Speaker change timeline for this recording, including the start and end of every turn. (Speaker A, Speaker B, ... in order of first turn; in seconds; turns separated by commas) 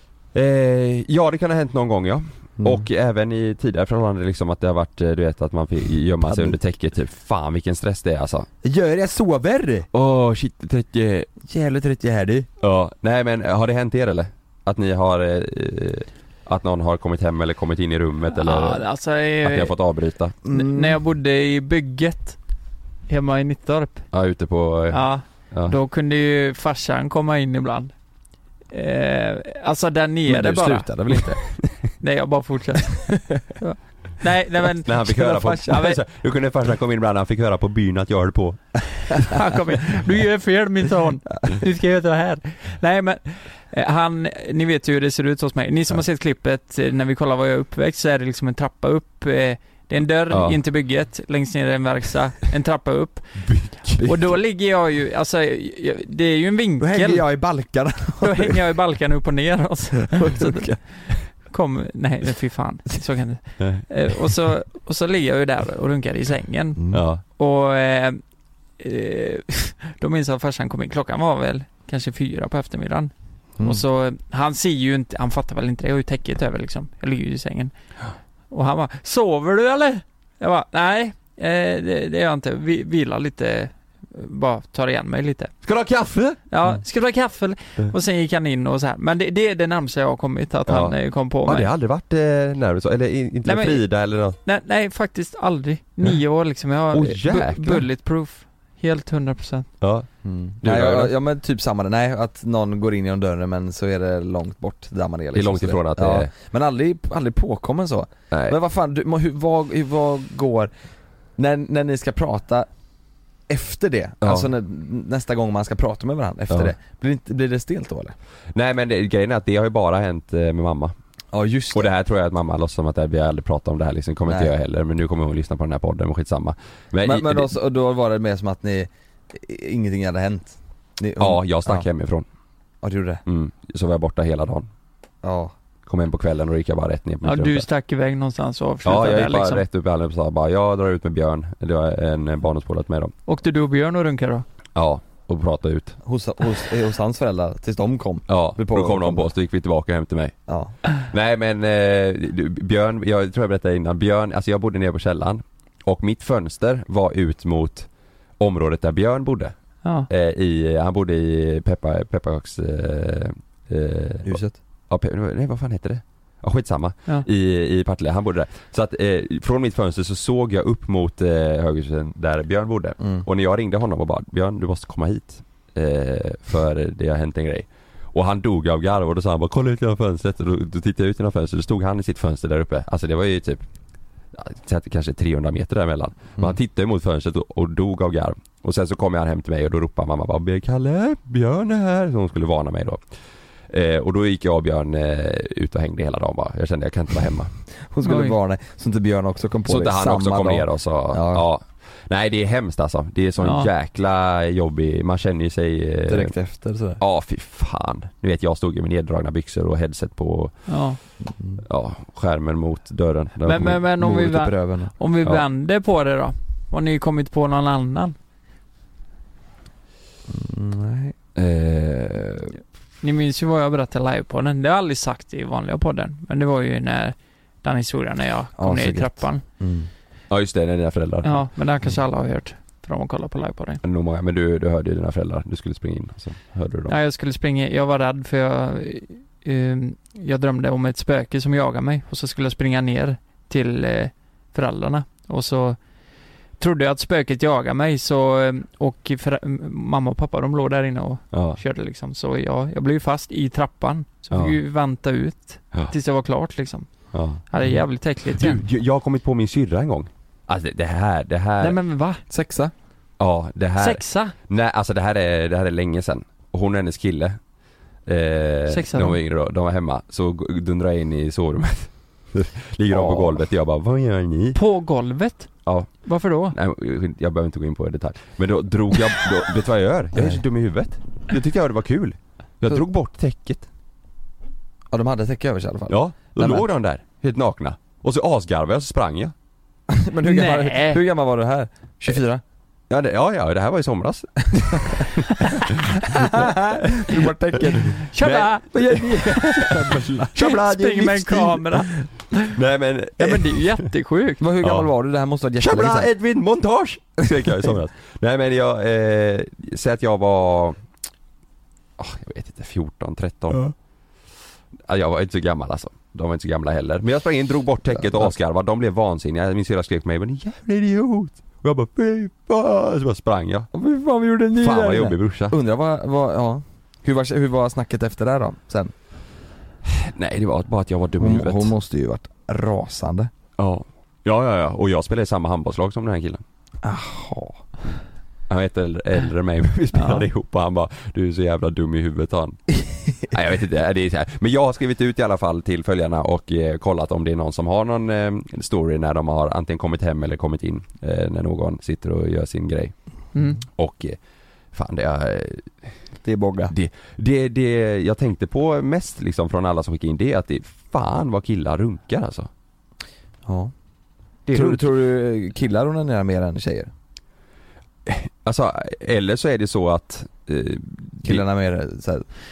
Speaker A: 0.3-8.5, Speaker B: 2.6-2.9, Speaker B: 6.2-6.6, Speaker B: 8.6-9.9, Speaker A: 9.9-11.3, Speaker B: 11.4-12.5, Speaker A: 12.6-18.8, Speaker C: 18.3-19.8, Speaker A: 19.4-20.3, Speaker B: 20.4-21.0, Speaker C: 20.5-22.4, Speaker C: 23.1-24.1, Speaker A: 24.1-25.8, Speaker C: 24.9-27.9, Speaker C: 28.7-30.9, Speaker B: 30.2-31.4, Speaker C: 32.0-36.0, Speaker B: 33.1-33.4, Speaker A: 34.8-39.3, Speaker B: 35.1-35.8, Speaker C: 39.2-53.4, Speaker A: 50.3-50.6, Speaker A: 53.4-54.1, Speaker C: 54.0-57.2, Speaker B: 56.8-58.6, Speaker C: 58.2-68.2, Speaker B: 60.1-60.8, Speaker B: 66.8-67.0, Speaker A: 66.9-67.2, Speaker C: 68.8-77.7, Speaker B: 73.6-73.8, Speaker C: 78.5-85.5, Speaker A: 85.6-86.4, Speaker C: 86.5-91.7, Speaker A: 90.7-94.4, Speaker C: 93.4-93.8, Speaker C: 94.4-99.7, Speaker A: 96.9-97.9, Speaker A: 99.8-100.1, Speaker B: 100.2-110.7, Speaker A: 100.6-101.1, Speaker A: 105.3-106.3, Speaker A: 108.3-108.6, Speaker B: 111.4-112.7, Speaker B: 113.5-118.1, Speaker A: 114.2-114.5, Speaker A: 118.5-120.9, Speaker B: 121.3-121.9, Speaker A: 121.7-127.5, Speaker B: 124.3-124.5, Speaker B: 127.0-131.9, Speaker A: 131.2-132.2, Speaker B: 132.8-133.2, Speaker A: 133.2-134.7, Speaker B: 135.2-135.5, Speaker A: 135.8-137.7, Speaker C: 137.2-139.6, Speaker A: 138.8-143.1, Speaker C: 143.3-144.4, Speaker A: 144.7-146.0, Speaker B: 146.0-149.3, Speaker A: 148.3-150.3, Speaker B: 150.5-150.7, Speaker A: 150.9-157.9, Speaker A: 158.4-159.5, Speaker A: 160.1-164.4, Speaker B: 164.2-164.6, Speaker A: 164.9-183.6, Speaker A: 184.3-193.0, Speaker A: 193.7-197.5, Speaker B: 197.9-201.4, Speaker C: 198.0-198.4, Speaker A: 199.7-206.3, Speaker C: 203.4-203.7, Speaker B: 206.1-207.0, Speaker A: 207.0-210.5, Speaker C: 210.7-211.0, Speaker B: 211.2-211.6, Speaker A: 211.6-213.8, Speaker C: 213.4-218.1, Speaker B: 213.9-214.9, Speaker B: 220.3-221.1, Speaker A: 221.3-222.6, Speaker C: 223.0-229.4, Speaker B: 228.6-229.9, Speaker A: 230.3-231.4, Speaker C: 231.2-233.8, Speaker A: 233.8-236.9, Speaker C: 236.9-245.8, Speaker C: 246.6-258.6, Speaker A: 251.3-251.6, Speaker A: 254.3-254.6, Speaker A: 257.1-257.4, Speaker A: 258.4-261.8, Speaker C: 261.6-262.2, Speaker B: 262.3-262.7, Speaker A: 263.2-267.4, Speaker C: 263.8-264.3, Speaker A: 268.1-274.6, Speaker C: 268.7-269.2, Speaker B: 272.9-273.4, Speaker C: 274.5-275.5, Speaker A: 275.6-283.6, Speaker C: 276.0-276.6, Speaker B: 280.1-280.4, Speaker B: 284.9-286.6, Speaker A: 285.9-289.3, Speaker B: 289.9-292.4, Speaker C: 290.2-291.0, Speaker A: 292.9-301.7, Speaker B: 294.7-295.0, Speaker C: 295.3-295.7, Speaker B: 295.9-298.0, Speaker C: 298.0-299.3, Speaker B: 298.7-300.5, Speaker C: 300.3-302.6, Speaker A: 302.5-303.8, Speaker C: 303.2-304.4, Speaker B: 304.4-306.1, Speaker A: 304.6-304.9, Speaker A: 305.6-310.8, Speaker A: 312.0-313.7, Speaker A: 314.9-323.7, Speaker B: 317.9-318.3, Speaker B: 323.7-328.9, Speaker A: 324.6-325.5, Speaker A: 329.9-331.7, Speaker B: 331.2-333.3, Speaker A: 333.6-336.4, Speaker B: 336.8-337.6, Speaker A: 338.5-352.9, Speaker C: 339.9-340.2, Speaker C: 353.3-353.6, Speaker A: 353.6-354.2, Speaker A: 354.7-355.9, Speaker B: 356.2-356.7, Speaker A: 356.7-362.5, Speaker B: 363.4-363.7, Speaker A: 364.5-364.8, Speaker B: 364.5-366.9, Speaker A: 368.0-371.4, Speaker B: 371.2-372.2